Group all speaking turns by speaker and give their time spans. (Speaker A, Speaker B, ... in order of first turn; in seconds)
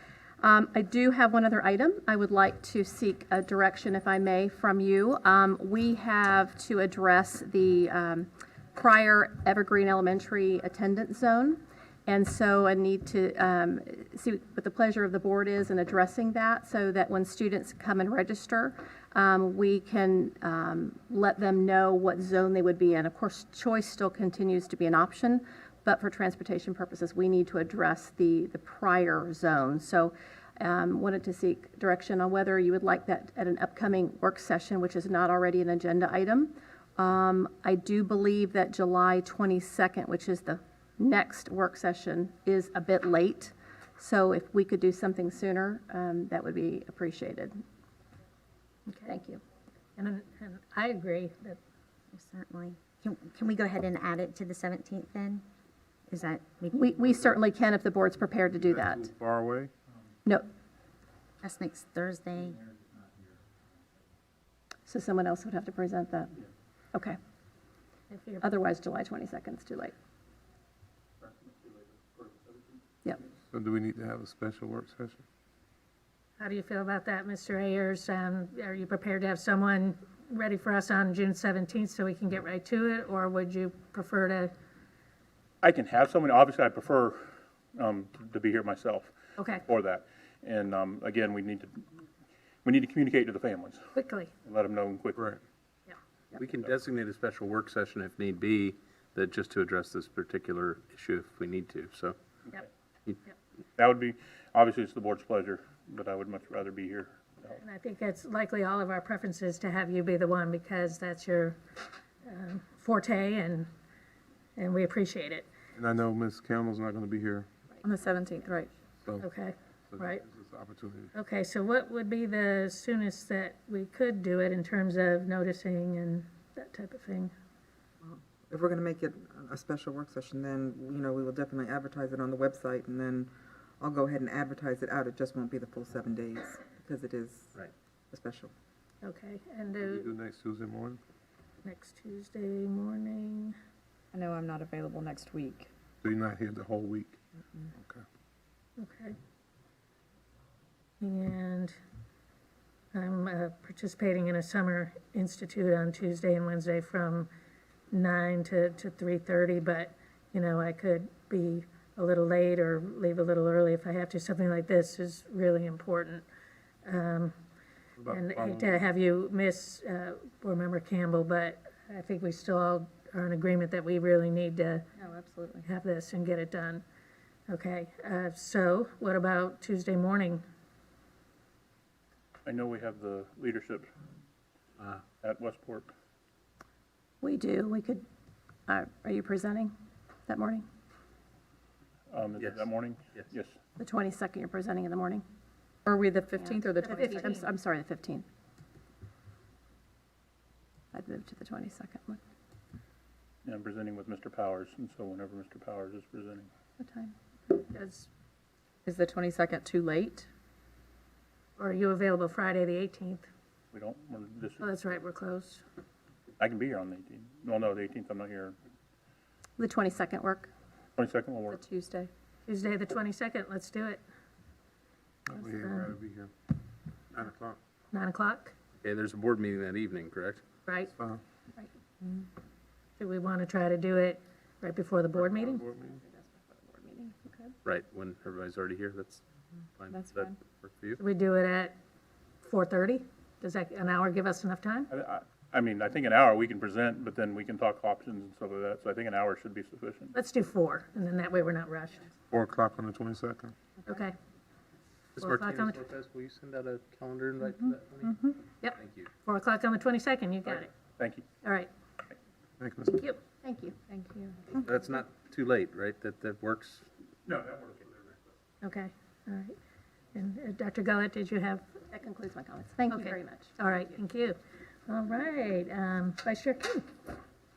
Speaker A: 0.4-47.6, 49.1-49.4, 56.7-59.1, 64.8-66.3, 68.4-69.9, 187.2-188.0, 188.7-189.7, 190.3-190.6, 193.8-195.2, 196.3-198.2, 200.9-202.2, 206.8-207.1, 219.6-220.5, 236.5-237.1, 263.4-263.8, 271.9-273.5
Speaker B: 48.9-49.1, 50.0-51.6, 68.1-68.5, 76.4-84.5, 89.4-89.6, 93.9-94.3, 107.5-111.6, 112.2-113.7, 114.6-115.5, 119.2-120.2, 121.1-127.3, 139.0-140.1, 141.6-143.5, 148.8-149.2, 151.0-151.8, 152.9-157.3, 157.9-166.2, 166.8-167.3, 168.1-174.8, 175.6-176.8, 177.5-180.4, 196.8-197.5, 207.7-208.1, 211.6-213.3, 214.6-215.6, 222.4-224.0, 225.3-225.9, 227.9-228.5, 230.6-230.9, 233.0-235.7, 241.0-241.7, 242.4-244.9, 250.1-252.1, 253.8-254.1, 255.2-255.8, 258.6-260.7, 261.4-261.7, 262.9-263.2, 268.6-269.5, 270.1-271.6, 272.9-274.4, 274.9-276.9
Speaker C: 52.2-55.4, 56.1-56.8, 61.4-62.6
Speaker D: 58.7-59.7, 73.5-75.2, 115.8-117.5, 119.9-121.1, 139.8-141.0, 146.0-147.2, 147.7-148.0, 168.0-168.9, 225.3-226.3, 227.1-227.6, 230.9-231.2, 235.2-236.0, 252.3-253.5, 262.6-263.0
Speaker E: 71.2-72.8, 85.6-89.1, 89.6-91.8, 92.6-93.9, 94.4-95.3, 96.5-96.7, 103.8-107.5, 182.4-183.9, 185.2-185.9, 192.1-193.6, 203.4-206.5, 213.7-214.6, 216.4-218.6, 221.0-221.6, 244.9-250.1, 260.5-261.3, 267.2-268.2
Speaker F: 96.3-102.2, 192.4-193.3, 228.8-230.4, 237.6-239.2, 239.8-241.0, 255.2-258.1, 258.8-259.1, 264.5-266.8
Speaker G: 117.8-118.7, 144.1-145.7, 175.0-175.7, 195.8-197.4, 208.8-210.3, 221.5-222.1, 236.8-237.5, 239.9-240.3, 263.9-264.4
Speaker H: 128.0-137.6, 138.1-138.5